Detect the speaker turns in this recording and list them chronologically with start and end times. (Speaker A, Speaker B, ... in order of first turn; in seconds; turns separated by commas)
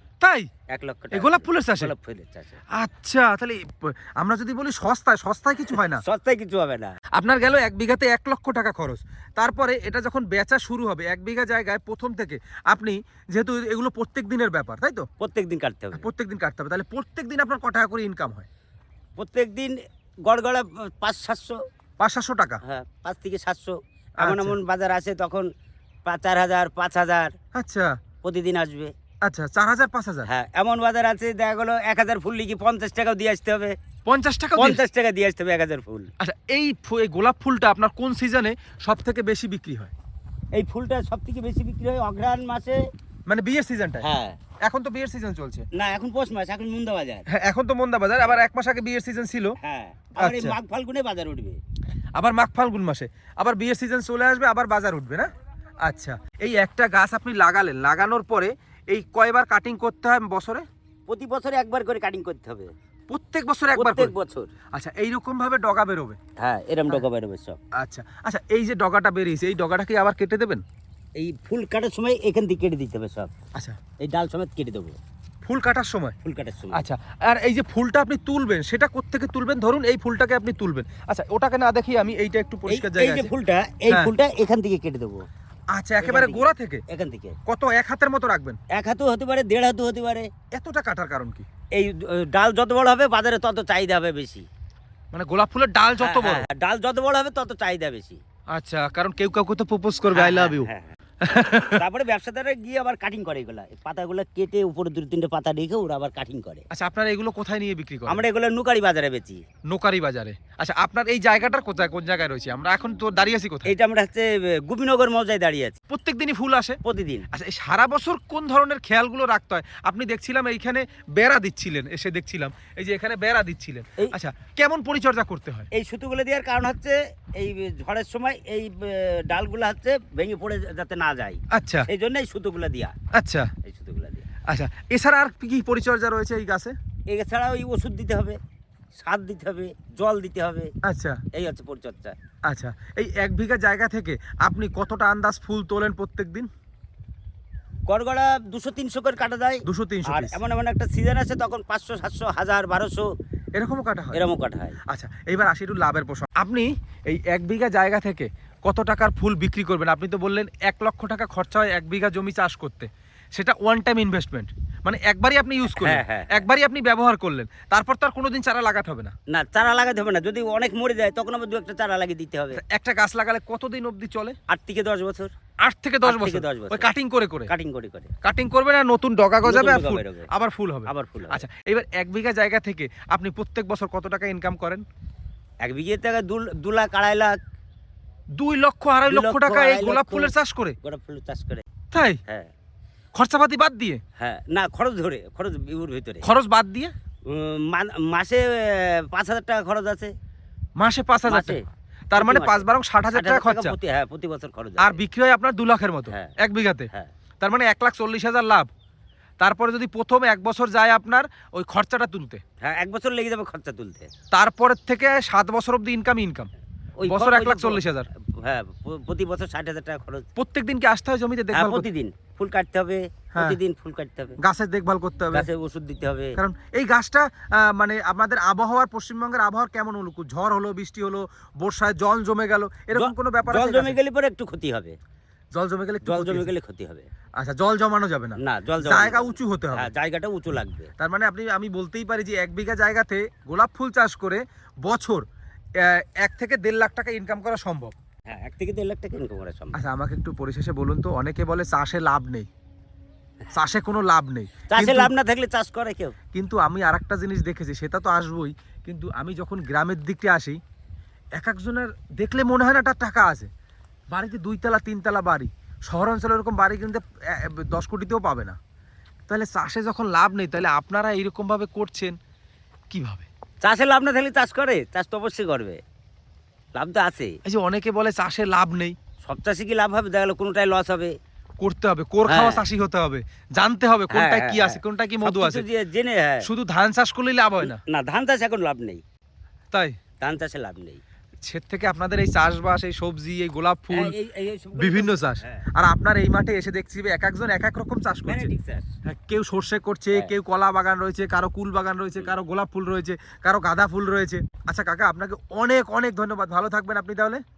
Speaker A: 0.2-0.5, Speaker B: 0.7-2.6, Speaker A: 1.1-1.9, Speaker A: 2.8-6.0, Speaker B: 5.8-6.9, Speaker A: 7.2-15.1, Speaker B: 15.2-16.1, Speaker A: 15.9-18.5, Speaker B: 19.2-21.6, Speaker A: 22.0-22.6, Speaker B: 22.6-25.5, Speaker A: 24.2-24.6, Speaker B: 26.1-27.3, Speaker A: 27.5-28.0, Speaker B: 28.2-28.9, Speaker A: 29.2-30.3, Speaker B: 30.3-33.8, Speaker A: 34.1-34.8, Speaker B: 34.6-36.1, Speaker A: 36.2-39.9, Speaker B: 40.5-42.8, Speaker A: 43.3-44.0, Speaker B: 44.0-44.4, Speaker A: 44.6-45.7, Speaker B: 45.7-47.3, Speaker A: 47.3-49.5, Speaker B: 49.6-51.6, Speaker A: 50.2-50.6, Speaker A: 52.1-55.3, Speaker A: 55.8-60.7, Speaker B: 61.1-62.7, Speaker A: 63.1-64.1, Speaker B: 63.8-64.5, Speaker A: 64.7-66.2, Speaker B: 66.4-67.6, Speaker A: 67.8-70.6, Speaker B: 71.2-73.3, Speaker B: 74.0-75.0, Speaker A: 75.5-76.2, Speaker B: 76.2-76.9, Speaker A: 76.7-83.3, Speaker B: 82.7-85.2, Speaker A: 85.7-86.8, Speaker B: 86.0-87.3, Speaker A: 87.5-88.6, Speaker B: 88.7-90.3, Speaker A: 90.5-91.5, Speaker B: 91.8-94.5, Speaker A: 95.1-96.5, Speaker B: 96.0-98.2, Speaker A: 98.5-100.7, Speaker B: 100.1-101.0, Speaker A: 101.2-101.8, Speaker B: 101.7-106.7, Speaker A: 106.7-108.2, Speaker B: 108.1-109.4, Speaker A: 109.7-113.7, Speaker B: 113.7-115.8, Speaker A: 115.9-116.8, Speaker B: 116.8-117.3, Speaker A: 117.3-125.7, Speaker B: 125.7-132.9, Speaker A: 131.5-131.9, Speaker A: 133.2-133.5, Speaker B: 133.6-134.3, Speaker A: 134.5-136.8, Speaker B: 137.1-138.4, Speaker B: 139.0-140.7, Speaker A: 140.8-141.2, Speaker B: 141.3-142.2, Speaker A: 142.5-146.5, Speaker B: 147.9-153.1, Speaker A: 149.7-150.4, Speaker A: 153.6-154.2, Speaker B: 154.1-154.8, Speaker A: 154.9-169.1, Speaker B: 165.7-166.5, Speaker B: 169.3-172.6, Speaker A: 172.5-174.4, Speaker B: 174.5-175.3, Speaker A: 175.6-177.5, Speaker B: 176.1-176.9, Speaker B: 177.5-178.1, Speaker A: 178.2-184.8, Speaker B: 179.4-180.3, Speaker B: 180.9-181.4, Speaker B: 185.6-187.4, Speaker A: 188.3-190.8, Speaker B: 189.1-191.6, Speaker A: 191.9-192.2, Speaker A: 193.2-194.0, Speaker B: 194.2-196.3, Speaker A: 196.2-196.9, Speaker B: 197.3-200.1, Speaker A: 200.8-201.6, Speaker B: 201.3-201.6, Speaker A: 202.1-203.8, Speaker B: 202.2-205.0, Speaker A: 204.8-206.9, Speaker B: 206.1-206.4, Speaker A: 207.4-208.7, Speaker A: 209.4-212.4, Speaker B: 212.6-214.1, Speaker A: 214.3-216.5, Speaker B: 217.0-220.3, Speaker A: 217.1-218.1, Speaker A: 220.4-221.9, Speaker B: 221.5-224.4, Speaker A: 224.4-225.5, Speaker B: 225.3-226.4, Speaker A: 226.4-234.0, Speaker B: 232.9-235.0, Speaker A: 235.5-236.5, Speaker B: 236.1-237.1, Speaker A: 237.4-239.9, Speaker B: 238.4-240.9, Speaker A: 241.0-245.2, Speaker A: 245.8-247.9, Speaker B: 248.3-249.8, Speaker A: 249.7-252.5, Speaker A: 253.5-255.1, Speaker B: 254.7-256.1, Speaker A: 256.3-260.6, Speaker A: 261.4-263.5, Speaker A: 264.1-268.6, Speaker A: 269.3-272.2, Speaker A: 272.9-273.3, Speaker B: 273.6-275.8, Speaker B: 276.8-277.4, Speaker A: 277.4-279.0, Speaker B: 279.2-281.1, Speaker A: 281.6-285.6, Speaker B: 282.3-282.6, Speaker B: 284.1-286.5, Speaker A: 286.4-287.8, Speaker B: 287.6-289.0, Speaker A: 289.7-290.0, Speaker B: 290.2-291.0, Speaker A: 291.4-294.1, Speaker B: 293.9-295.7, Speaker A: 294.8-298.5, Speaker B: 298.3-298.9, Speaker A: 299.1-307.4